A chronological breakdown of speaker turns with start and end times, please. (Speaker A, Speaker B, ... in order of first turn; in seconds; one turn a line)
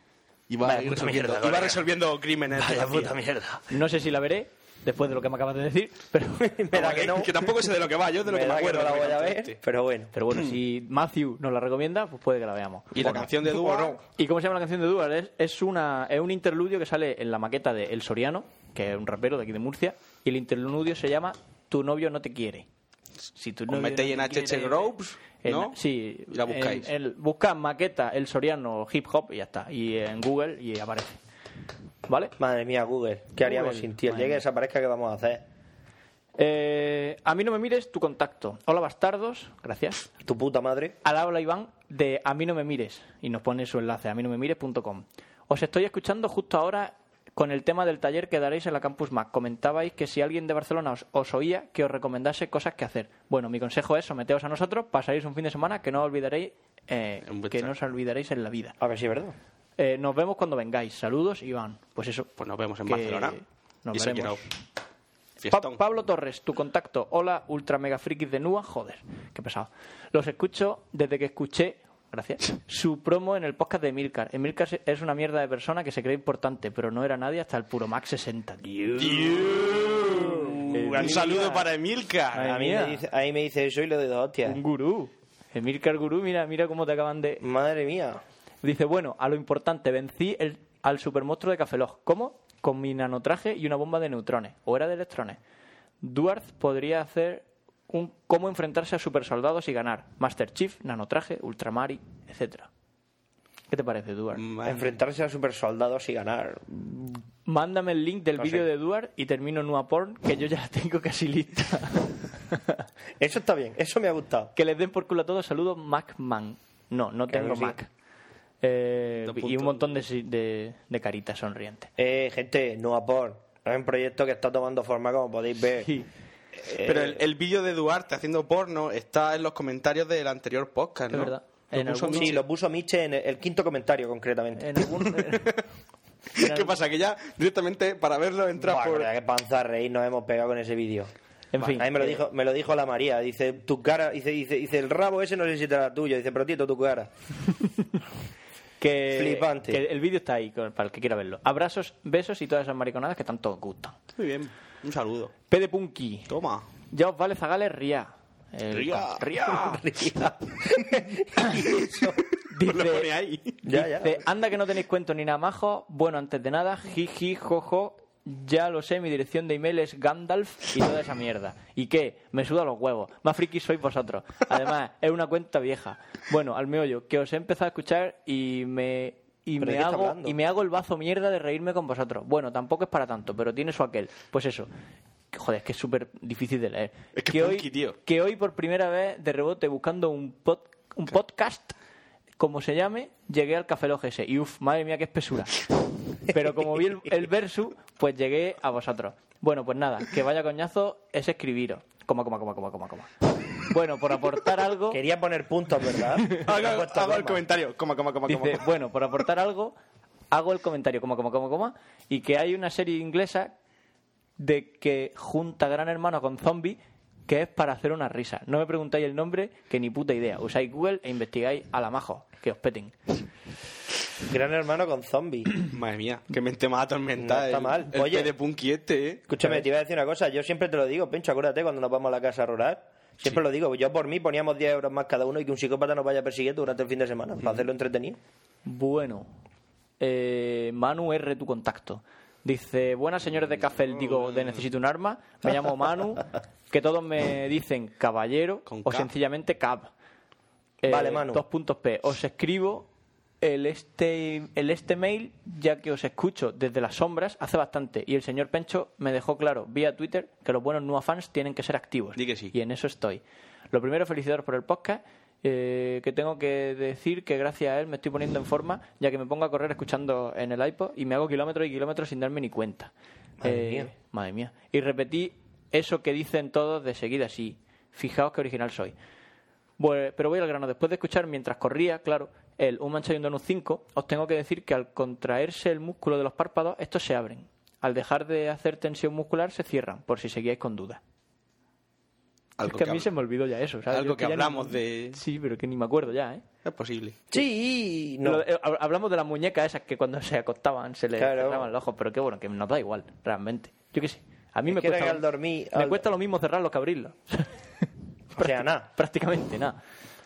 Speaker A: 0.5-3.1
Speaker B: 0.6-1.8
Speaker B: 2.5-3.6
Speaker C: 3.7-6.5
Speaker B: 6.4-7.5
Speaker A: 6.7-9.6
Speaker B: 8.2-10.1
Speaker C: 10.1-22.6
Speaker A: 12.9-14.0
Speaker B: 13.6-13.9
Speaker C: 23.3-24.9
Speaker A: 23.7-25.8
Speaker C: 25.4-31.2
Speaker A: 26.3-26.9
Speaker C: 32.0-32.3
Speaker B: 32.4-35.4
Speaker C: 33.4-34.4
Speaker C: 36.4-40.0
Speaker B: 40.2-41.0
Speaker C: 41.0-58.7
Speaker A: 57.2-57.7
Speaker B: 58.8-59.4
Speaker C: 59.8-62.3
Speaker A: 62.4-63.4
Speaker C: 62.8-64.5
Speaker A: 63.9-64.4
Speaker A: 65.4-65.8
Speaker C: 65.5-79.7
Speaker A: 79.0-82.6
Speaker B: 80.3-81.7
Speaker C: 80.7-81.2
Speaker C: 82.3-83.0
Speaker B: 82.4-84.6
Speaker C: 84.5-87.4
Speaker B: 87.4-88.2
Speaker C: 88.6-95.4
Speaker C: 96.0-102.7
Speaker C: 103.7-104.4
Speaker A: 104.3-104.8
Speaker B: 104.6-107.2
Speaker C: 107.5-112.8
Speaker B: 108.4-108.7
Speaker B: 113.2-114.5
Speaker C: 114.5-117.9
Speaker B: 117.3-117.8
Speaker C: 118.6-121.9
Speaker A: 119.2-120.0
Speaker B: 122.0-125.9
Speaker B: 126.7-127.2
Speaker A: 126.8-132.3
Speaker C: 131.1-132.4
Speaker B: 132.1-134.8
Speaker C: 134.6-135.5
Speaker A: 135.3-135.6
Speaker C: 136.4-136.7
Speaker A: 136.4-139.1
Speaker B: 138.6-147.1
Speaker C: 141.5-142.2
Speaker C: 148.8-153.9
Speaker B: 149.1-149.8
Speaker A: 154.2-155.3
Speaker C: 155.5-156.3
Speaker A: 156.3-156.7
Speaker C: 156.9-159.8
Speaker A: 158.7-159.5
Speaker B: 159.5-162.2
Speaker C: 162.5-163.1
Speaker A: 162.6-163.6
Speaker B: 163.6-164.2
Speaker C: 163.7-184.7
Speaker B: 179.6-180.4
Speaker C: 185.3-191.7
Speaker A: 187.2-187.9
Speaker C: 192.4-195.7
Speaker C: 196.3-205.0
Speaker B: 204.9-207.4
Speaker A: 206.4-208.6
Speaker C: 208.3-209.7
Speaker C: 210.3-213.5
Speaker C: 214.4-222.9
Speaker B: 224.2-225.5
Speaker A: 225.7-229.2
Speaker B: 227.2-228.3
Speaker B: 229.3-238.2
Speaker C: 238.7-239.3
Speaker C: 240.0-249.9
Speaker A: 244.0-244.6
Speaker A: 248.7-249.1
Speaker C: 250.8-252.9
Speaker B: 250.8-251.4
Speaker C: 253.4-272.9
Speaker A: 262.2-262.5
Speaker B: 273.4-273.9
Speaker C: 273.4-278.9
Speaker C: 279.8-291.0
Speaker A: 292.6-293.1
Speaker C: 292.6-296.4
Speaker A: 293.9-295.2
Speaker A: 296.6-297.2
Speaker B: 297.3-298.4
Speaker C: 298.2-307.5
Speaker B: 301.1-301.7
Speaker B: 304.7-306.0
Speaker B: 308.4-308.9
Speaker C: 308.4-309.8